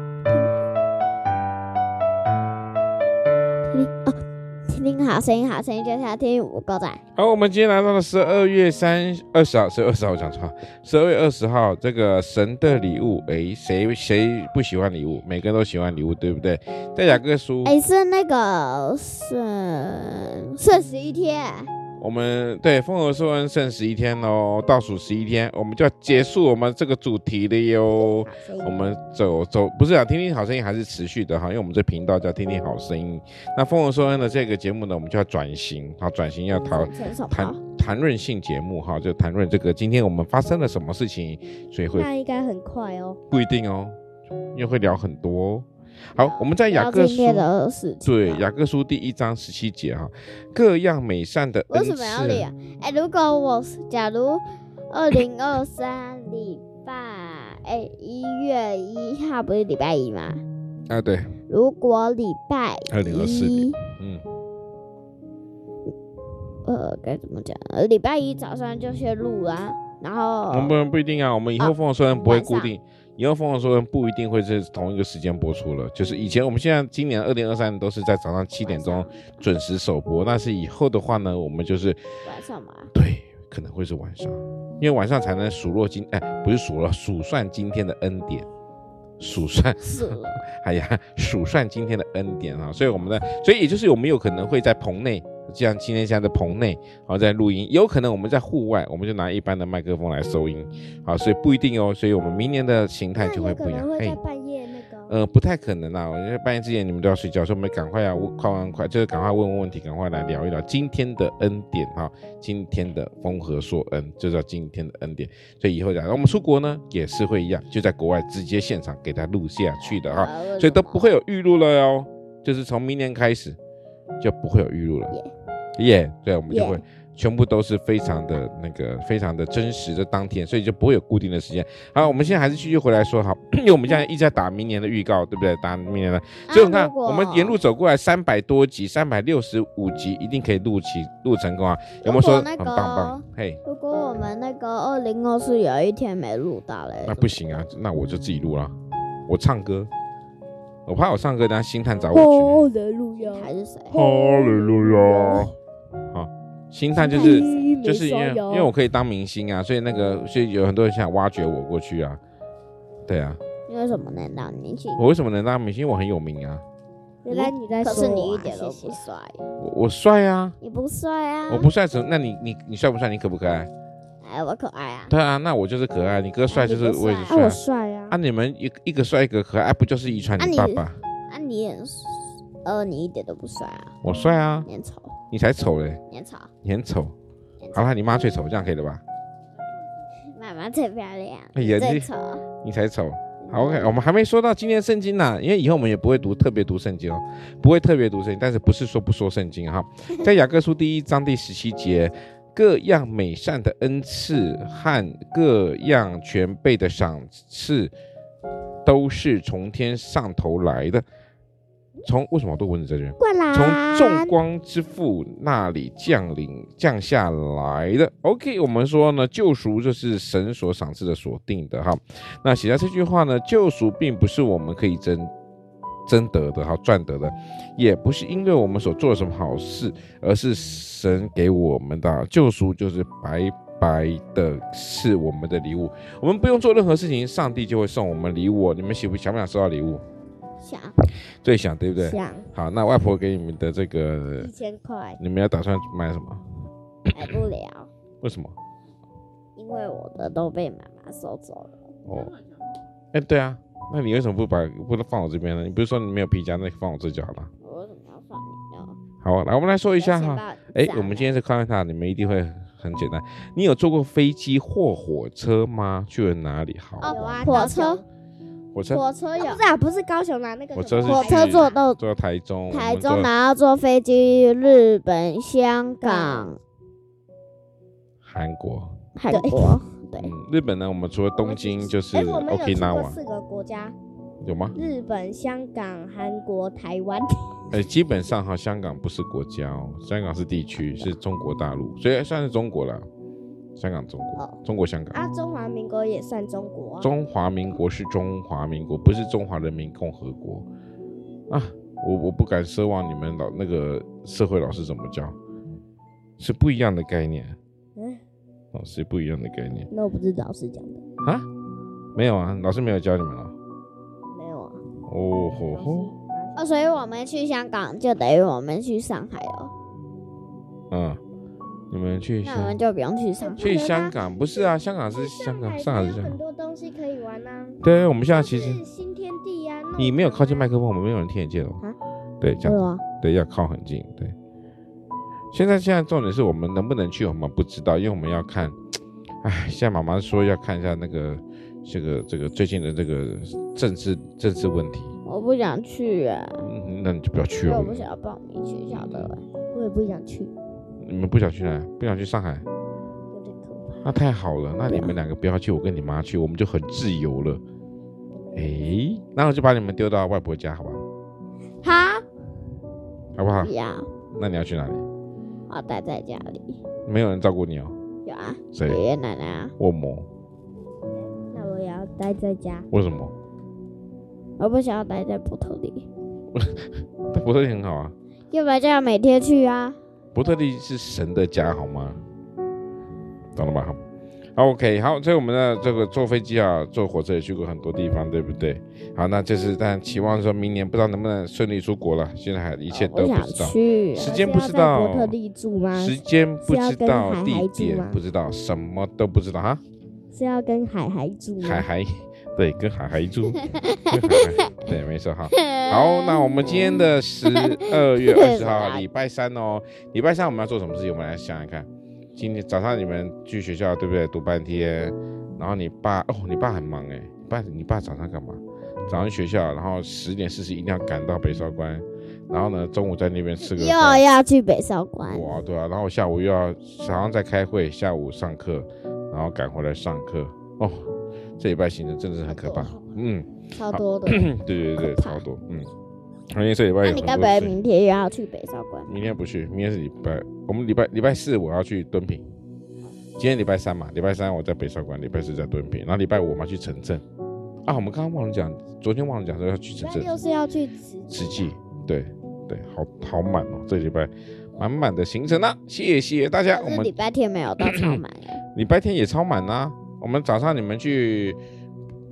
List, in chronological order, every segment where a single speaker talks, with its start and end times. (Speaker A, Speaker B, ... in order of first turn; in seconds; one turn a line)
Speaker A: 3.7-7.0
Speaker B: 7.2-17.8
Speaker A: 17.6-21.7
Speaker B: 22.0-42.1
Speaker C: 28.0-28.8
Speaker A: 36.6-37.6
Speaker C: 41.9-43.2
Speaker B: 43.3-44.0
Speaker B: 44.5-47.5
Speaker A: 46.2-48.5
Speaker B: 48.0-52.5
Speaker A: 51.7-60.4
Speaker B: 60.9-61.4
Speaker A: 61.5-63.8
Speaker B: 62.9-64.2
Speaker A: 66.7-70.7
Speaker B: 70.5-82.0
Speaker A: 71.6-72.8
Speaker A: 78.6-79.4
Speaker A: 82.2-82.9
Speaker B: 82.9-88.5
Speaker B: 89.2-104.2
Speaker A: 89.8-90.4
Speaker C: 103.2-105.2
Speaker B: 105.1-123.6
Speaker A: 119.8-121.1
Speaker B: 124.2-125.2
Speaker B: 125.8-143.6
Speaker A: 136.5-137.6
Speaker A: 142.0-147.6
Speaker B: 147.1-148.8
Speaker B: 149.3-149.9
Speaker B: 150.9-152.7
Speaker C: 152.1-155.5
Speaker A: 153.2-154.0
Speaker B: 153.9-155.5
Speaker B: 156.1-162.2
Speaker C: 156.9-158.8
Speaker A: 157.1-157.7
Speaker B: 163.1-163.4
Speaker A: 163.7-165.1
Speaker B: 165.0-166.6
Speaker C: 167.2-169.0
Speaker A: 167.3-169.4
Speaker B: 169.6-170.6
Speaker A: 170.6-171.7
Speaker B: 171.5-173.7
Speaker A: 174.2-175.1
Speaker B: 175.1-181.0
Speaker A: 176.5-177.4
Speaker C: 177.3-178.2
Speaker A: 180.4-183.9
Speaker B: 184.0-184.7
Speaker A: 184.7-185.2
Speaker B: 185.3-186.0
Speaker A: 186.1-186.5
Speaker B: 186.6-187.1
Speaker A: 187.6-188.0
Speaker B: 187.7-189.0
Speaker A: 190.3-192.4
Speaker B: 191.5-192.1
Speaker B: 192.6-207.9
Speaker A: 193.4-194.0
Speaker B: 208.8-211.0
Speaker B: 212.0-225.3
Speaker C: 213.2-214.4
Speaker B: 226.1-240.0
Speaker A: 240.6-241.0
Speaker B: 241.4-244.5
Speaker C: 242.0-242.5
Speaker C: 244.4-245.2
Speaker B: 245.2-246.4
Speaker A: 247.1-247.9
Speaker B: 248.2-248.6
Speaker A: 249.6-251.8
Speaker B: 252.1-252.3
Speaker B: 253.1-257.5
Speaker A: 257.6-259.0
Speaker B: 259.2-267.7
Speaker A: 260.0-261.3
Speaker A: 267.0-268.0
Speaker C: 267.0-268.1
Speaker B: 268.7-269.1
Speaker A: 268.9-269.6
Speaker C: 269.3-271.8
Speaker B: 270.8-273.3
Speaker A: 271.1-272.0
Speaker A: 272.7-276.6
Speaker C: 276.0-276.5
Speaker B: 278.2-278.9
Speaker A: 279.1-280.3
Speaker C: 279.3-279.8
Speaker B: 280.2-283.2
Speaker C: 281.4-284.0
Speaker B: 284.4-284.8
Speaker C: 284.8-287.6
Speaker B: 287.7-293.1
Speaker A: 290.8-291.1
Speaker B: 293.8-295.2
Speaker C: 295.1-297.1
Speaker B: 297.0-300.7
Speaker B: 301.5-305.4
Speaker B: 306.4-307.6
Speaker B: 308.7-309.9
Speaker C: 309.9-311.0
Speaker B: 312.1-313.6
Speaker C: 314.3-314.8
Speaker B: 315.1-316.1
Speaker C: 315.7-316.9
Speaker A: 316.6-319.7
Speaker B: 320.9-321.2
Speaker B: 321.9-322.8
Speaker A: 322.4-323.7
Speaker C: 323.4-330.7
Speaker B: 323.6-326.4
Speaker B: 327.8-328.8
Speaker B: 330.0-331.8
Speaker B: 332.4-334.3
Speaker B: 335.5-338.8
Speaker B: 339.4-345.2
Speaker A: 345.2-346.7
Speaker B: 346.6-348.1
Speaker A: 347.7-349.4
Speaker B: 348.9-349.3
Speaker C: 349.7-350.5
Speaker B: 351.0-352.7
Speaker C: 353.3-354.1
Speaker B: 354.0-357.6
Speaker A: 354.9-355.2
Speaker C: 358.3-358.9
Speaker B: 358.6-361.0
Speaker A: 361.8-362.2
Speaker B: 363.4-363.7
Speaker A: 363.6-364.1
Speaker B: 364.3-365.1
Speaker A: 365.7-366.8
Speaker B: 367.1-368.0
Speaker A: 368.2-369.7
Speaker B: 368.7-369.0
Speaker B: 369.8-370.3
Speaker C: 371.5-372.9
Speaker B: 372.9-373.3
Speaker A: 374.6-376.1
Speaker B: 376.5-378.1
Speaker A: 378.5-380.0
Speaker B: 380.4-382.2
Speaker B: 383.6-384.0
Speaker B: 384.6-395.4
Speaker A: 392.9-394.4
Speaker C: 394.1-398.2
Speaker B: 395.9-399.8
Speaker C: 400.3-401.9
Speaker B: 401.6-424.2
Speaker A: 403.7-404.9
Speaker A: 405.5-409.1
Speaker A: 423.6-425.6
Speaker B: 425.3-435.9
Speaker C: 432.5-433.0
Speaker A: 433.8-435.4
Speaker B: 436.5-437.8
Speaker A: 437.0-439.2
Speaker B: 439.1-442.4
Speaker B: 443.4-447.2
Speaker B: 447.9-450.4
Speaker C: 450.0-451.7
Speaker B: 451.3-457.1
Speaker A: 456.7-458.6
Speaker B: 457.8-458.2
Speaker B: 458.7-461.6